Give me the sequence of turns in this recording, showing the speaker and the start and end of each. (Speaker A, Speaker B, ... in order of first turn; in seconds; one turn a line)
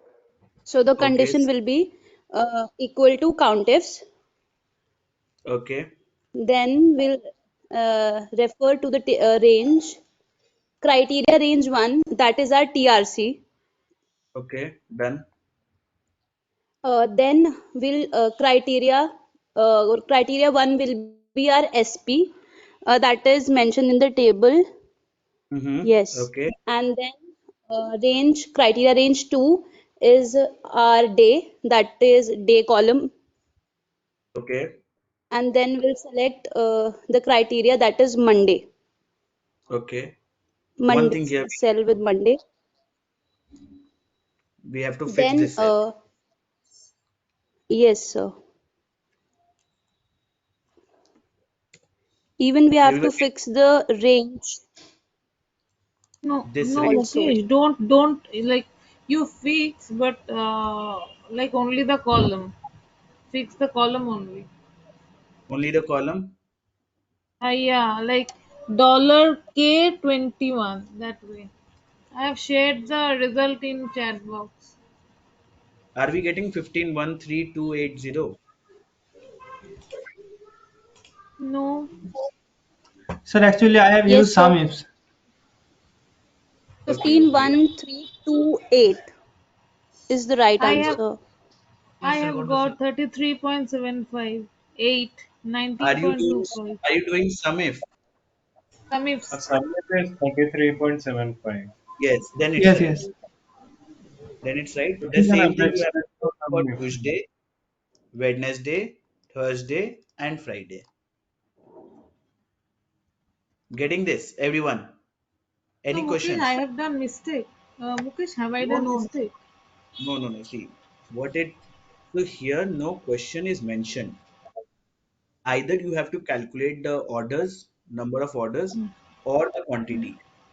Speaker A: 0.7-4.0
Speaker B: 1.0-1.5
Speaker B: 5.5-5.9
Speaker A: 6.4-10.0
Speaker A: 10.8-13.4
Speaker B: 14.3-15.2
Speaker A: 16.8-22.3
Speaker A: 22.9-24.6
Speaker B: 25.5-26.5
Speaker A: 25.8-27.2
Speaker A: 27.7-33.1
Speaker B: 34.4-34.7
Speaker A: 35.3-38.7
Speaker B: 39.7-40.1
Speaker A: 40.8-42.4
Speaker B: 40.9-41.6
Speaker B: 44.6-45.8
Speaker A: 45.1-45.9
Speaker A: 47.7-48.4
Speaker A: 52.4-54.6
Speaker B: 52.8-53.2
Speaker C: 56.2-62.5
Speaker B: 56.5-57.0
Speaker A: 56.8-57.4
Speaker C: 63.3-64.5
Speaker B: 65.5-66.3
Speaker C: 67.4-71.5
Speaker C: 72.2-74.7
Speaker B: 76.0-78.4
Speaker C: 81.4-81.9
Speaker D: 83.3-84.8
Speaker A: 84.1-84.6
Speaker A: 86.9-89.1
Speaker B: 86.9-87.5
Speaker A: 90.1-91.2
Speaker C: 90.6-91.0
Speaker B: 92.0-92.8
Speaker C: 92.0-96.8
Speaker B: 95.8-97.8
Speaker C: 98.9-99.4
Speaker E: 99.3-101.7
Speaker B: 102.0-103.1
Speaker D: 102.6-103.1
Speaker B: 104.4-107.3
Speaker E: 105.0-107.1
Speaker B: 108.1-110.9
Speaker B: 113.7-115.0
Speaker B: 115.8-116.6
Speaker C: 115.9-119.3
Speaker B: 118.6-119.1
Speaker B: 120.0-121.6
Speaker B: 122.1-124.2
Speaker B: 125.5-130.2